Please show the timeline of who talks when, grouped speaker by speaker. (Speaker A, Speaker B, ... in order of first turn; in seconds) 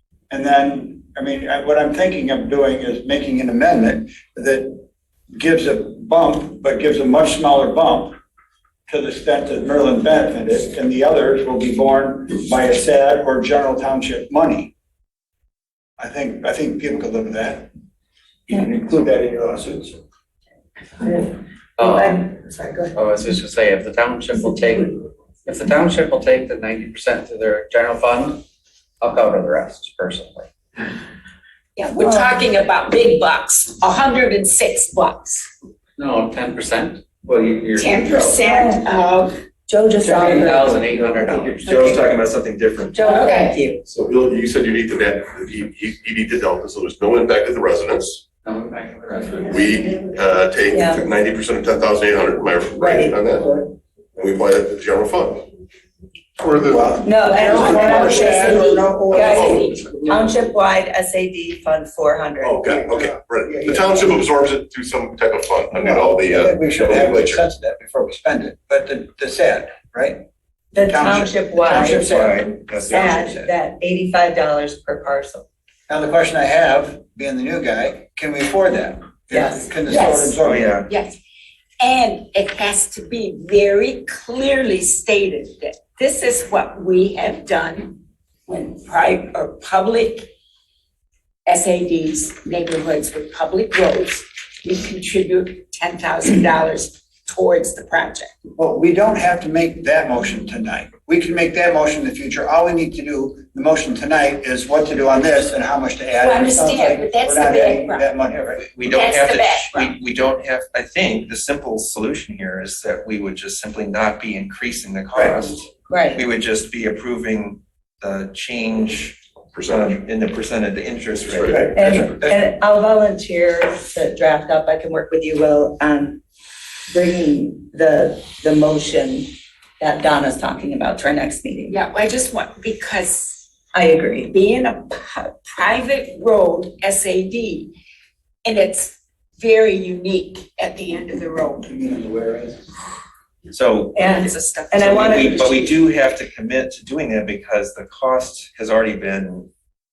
Speaker A: 0.3-8.2, 8.9-14.7, 16.0-17.7, 18.5-20.0, 53.3-53.7, 56.4-60.4, 62.6-64.2, 65.8-70.2, 70.7-73.3, 75.9-80.8, 98.5-108.6, 115.1-115.5, 121.5-122.1, 141.6-142.7
Speaker B: 21.0-23.0, 31.9-32.3, 38.4-38.8, 39.7-40.9, 41.6-41.9, 42.9-43.8, 50.7-51.0, 52.7-53.2, 57.0-62.6, 70.7-72.2, 72.9-75.5, 79.3-79.7, 115.9-116.2, 121.7-126.2, 126.9-131.8, 133.7-134.3, 143.9-145.4
Speaker C: 21.8-22.3, 22.9-28.4, 29.0-30.5, 36.0-38.4, 40.0-42.0, 48.4-49.6
Speaker D: 31.8-35.5, 37.8-39.4, 43.0-43.6, 57.4-59.9, 79.9-81.2, 81.8-90.3, 91.5-98.3, 106.2-108.1, 108.8-109.9, 131.7-133.4, 134.3-137.7, 138.4-141.7, 144.0-145.7
Speaker E: 41.1-43.0, 71.8-73.5, 80.4-80.9, 108.5-122.0, 143.5-144.0, 144.7-149.5
Speaker F: 43.9-48.2, 49.4-53.5, 54.1-55.5, 59.3-59.6, 62.4-67.4, 119.5-120.0, 121.3-122.0